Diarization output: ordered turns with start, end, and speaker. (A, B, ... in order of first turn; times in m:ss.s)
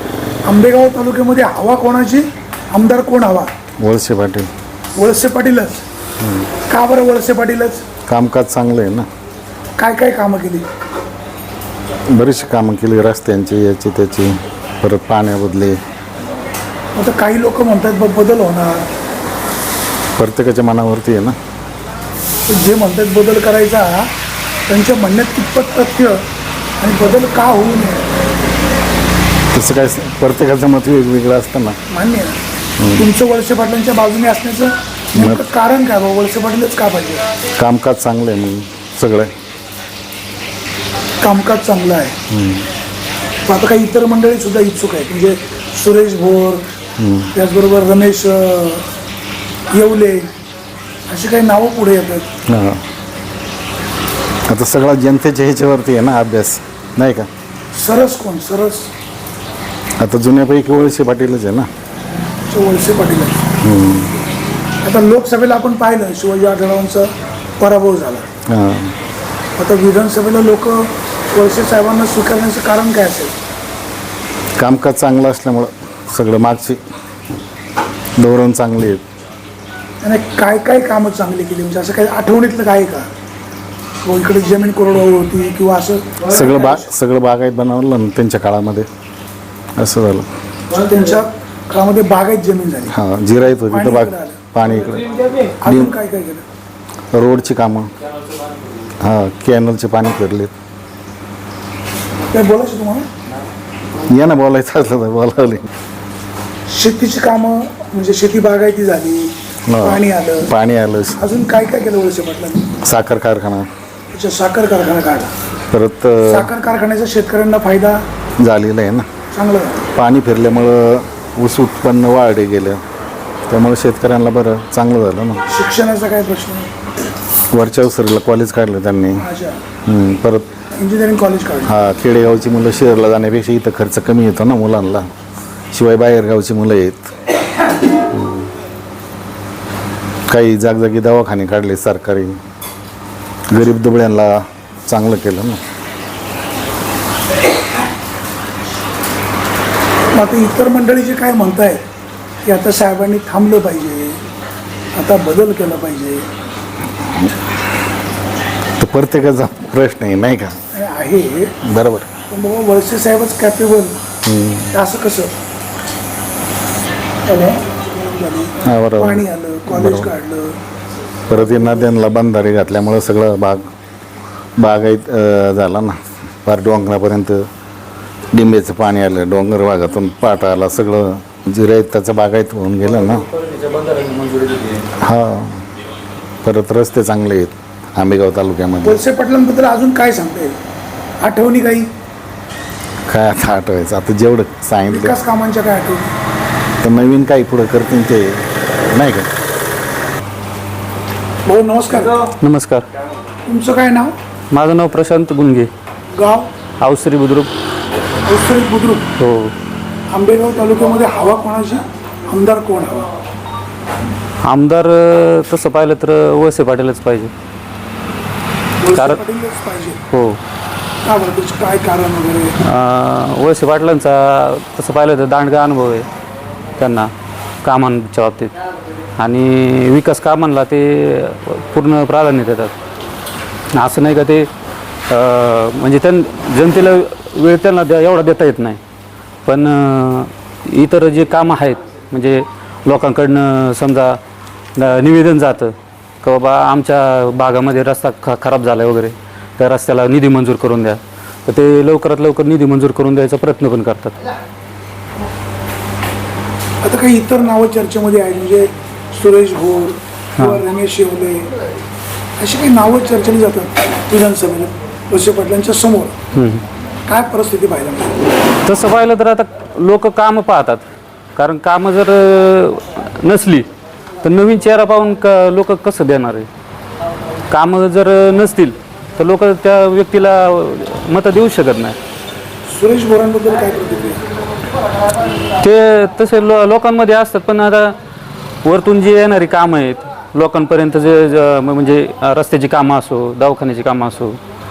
0:00.4-0:03.5 A
0:03.8-0:04.5 B
0:05.0-0:05.8 A
0:06.2-0:06.5 B
0:06.7-0:07.8 A
0:08.1-0:09.1 B
0:09.8-0:10.6 A
0:12.1-0:15.8 B
0:17.0-0:18.8 A
0:20.2-0:21.4 B
0:22.5-0:24.1 A
0:24.7-0:26.2 A
0:26.8-0:28.0 A
0:29.5-0:31.8 B
0:31.9-0:32.4 A
0:32.8-0:33.1 B
0:33.0-0:37.3 A
0:35.2-0:35.4 B
0:37.6-0:39.3 B
0:41.2-0:42.2 A
0:42.3-0:42.7 B
0:43.4-0:46.6 A
0:47.0-0:47.3 B
0:47.3-0:48.8 A
0:49.7-0:50.3 A
0:51.1-0:52.3 A
0:52.5-0:52.8 B
0:54.5-0:57.3 B
0:57.7-0:58.9 A
1:00.0-1:01.7 B
1:02.5-1:03.4 A
1:03.6-1:04.1 B
1:04.8-1:08.2 A
1:08.5-1:09.0 B
1:09.6-1:13.3 A
1:14.6-1:16.8 B
1:18.2-1:19.0 B
1:20.0-1:23.1 A
1:24.0-1:26.8 A
1:26.2-1:28.9 B
1:29.8-1:30.3 B
1:30.8-1:33.0 A
1:32.9-1:35.9 B
1:33.7-1:34.4 A
1:35.4-1:36.4 A
1:37.1-1:37.9 B
1:39.0-1:40.5 B
1:42.3-1:43.1 A
1:44.1-1:45.7 B
1:46.7-1:50.5 A
1:49.7-1:51.2 B
1:51.2-1:52.7 A
1:52.8-1:53.7 B
1:54.1-1:55.3 A
1:55.7-1:56.5 B
1:56.2-1:58.0 A
1:58.4-1:59.0 B
1:59.3-1:59.8 A
1:59.9-2:02.8 B
2:03.5-2:05.4 B
2:05.5-2:06.7 A
2:07.5-2:09.2 B
2:09.2-2:09.6 A
2:09.8-2:10.5 B
2:10.8-2:11.7 A
2:11.7-2:15.1 B
2:15.7-2:17.1 B
2:18.1-2:18.5 B
2:20.3-2:22.4 B
2:23.5-2:25.6 B
2:30.1-2:31.8 A
2:32.4-2:34.2 A
2:35.0-2:36.2 A
2:37.0-2:37.3 B
2:38.8-2:40.6 B
2:40.7-2:41.5 A
2:41.6-2:42.1 B
2:42.2-2:44.0 A
2:44.2-2:44.7 B
2:44.7-2:45.3 A
2:47.2-2:50.6 A
2:48.6-2:50.1 B
2:51.3-2:53.6 B
2:54.6-2:57.4 B
2:58.3-3:03.3 B
3:03.3-3:04.9 C
3:05.0-3:05.6 B
3:06.4-3:09.0 B
3:08.8-3:10.6 A
3:11.2-3:11.9 A
3:13.1-3:15.2 B
3:14.9-3:16.0 A
3:16.8-3:19.3 B
3:21.4-3:22.3 A
3:22.4-3:22.9 C
3:23.4-3:24.1 A
3:24.5-3:25.7 C
3:26.2-3:26.5 A
3:26.8-3:27.5 C
3:28.2-3:29.1 A
3:29.2-3:29.5 C
3:30.1-3:33.1 A
3:34.4-3:37.3 C
3:38.8-3:40.0 A
3:38.9-3:39.2 C
3:40.1-3:40.4 C
3:41.0-3:42.5 A
3:42.6-3:46.1 C
3:46.8-3:47.1 C
3:47.6-3:48.6 C
3:49.2-3:52.7 C
3:53.7-3:54.5 C
3:55.1-3:58.8 C
3:59.4-4:04.2 C
4:04.8-4:14.1 C
4:16.8-4:21.5 A
4:22.4-4:26.2 A
4:26.3-4:26.6 C
4:27.1-4:28.3 A
4:28.6-4:30.8 C
4:31.4-4:33.7 C
4:34.2-4:36.5 C
4:37.5-4:42.0 C
4:42.6-4:44.2 A
4:45.6-4:48.0 C
4:48.6-4:54.4 C